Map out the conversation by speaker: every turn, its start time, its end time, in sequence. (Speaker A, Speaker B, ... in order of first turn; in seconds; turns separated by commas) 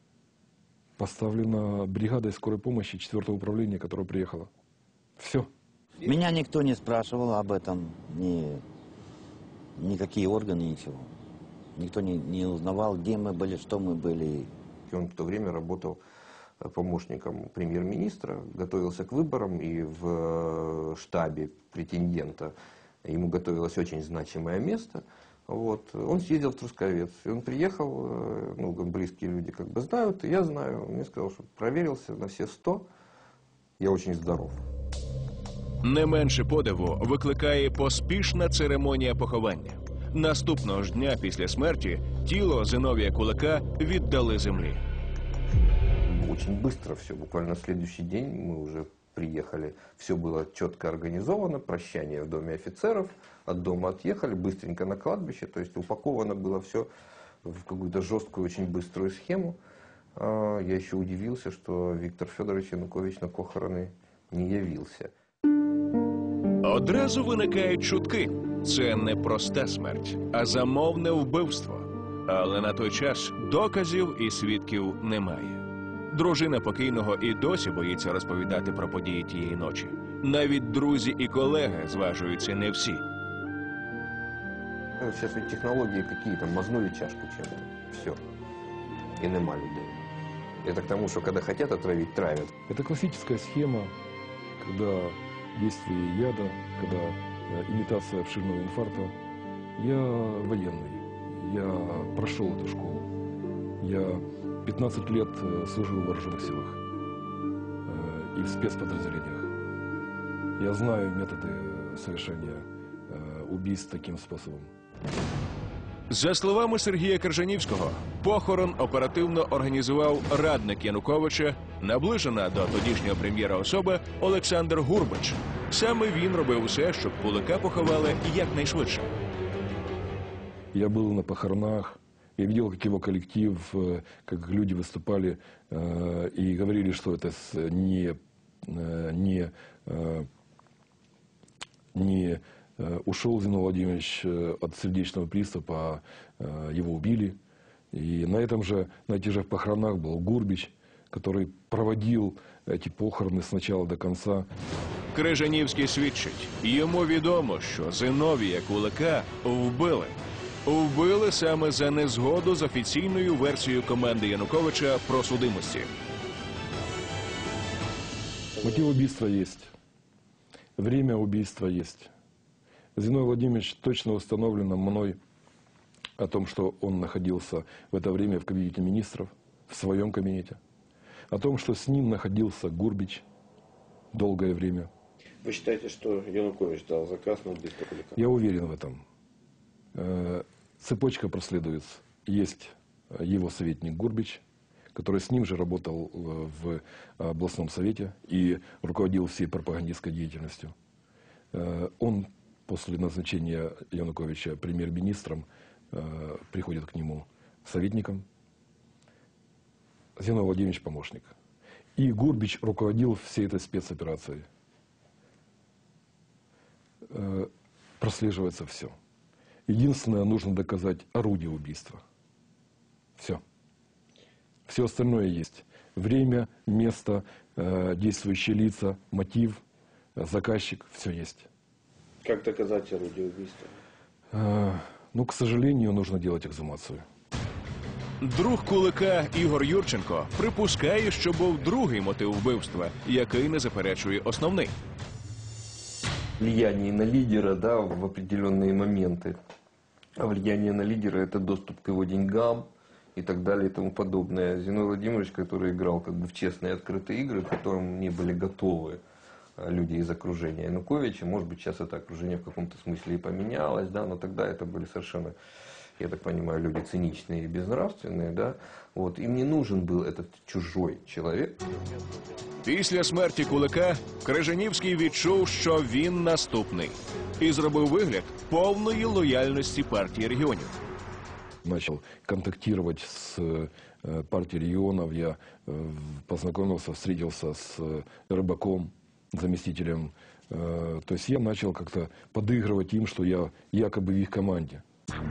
Speaker A: 1.0-4.5, Speaker A: 5.2-5.5, Speaker B: 6.0-8.6, Speaker B: 9.8-11.1, Speaker B: 11.8-14.5, Speaker C: 14.9-16.0, Speaker C: 16.6-22.5, Speaker C: 23.0-32.9, Speaker C: 33.8-34.6, Speaker D: 35.8-44.8, Speaker C: 46.1-56.9, Speaker C: 57.4-59.6, Speaker C: 60.1-65.1, Speaker D: 66.6-83.0, Speaker C: 85.0-88.2, Speaker C: 89.2-90.0, Speaker C: 90.6-92.5, Speaker A: 92.7-93.9, Speaker A: 94.6-99.1, Speaker A: 99.8-103.1, Speaker A: 103.8-106.8, Speaker A: 107.8-109.5, Speaker A: 110.6-114.7, Speaker D: 116.1-129.1, Speaker A: 130.7-140.2, Speaker A: 141.9-147.4, Speaker A: 147.9-154.5, Speaker D: 155.1-165.9, Speaker A: 168.6-169.7, Speaker A: 170.8-172.1, Speaker A: 172.9-175.2, Speaker A: 176.2-180.6, Speaker A: 181.3-183.2, Speaker A: 184.1-184.9, Speaker E: 185.4-188.2, Speaker A: 188.2-189.0, Speaker A: 189.9-194.4, Speaker A: 194.9-200.7, Speaker A: 201.5-208.2, Speaker A: 210.2-211.3, Speaker A: 211.9-214.4, Speaker A: 217.1-218.9, Speaker A: 219.7-222.0, Speaker A: 224.7-229.6, Speaker A: 230.2-231.5, Speaker E: 232.2-233.7, Speaker A: 234.3-237.0, Speaker D: 238.2-244.7, Speaker C: 246.4-249.3, Speaker C: 250.2-259.0, Speaker C: 259.6-265.3, Speaker C: 266.0-271.6, Speaker D: 272.6-280.8, Speaker A: 281.6-294.8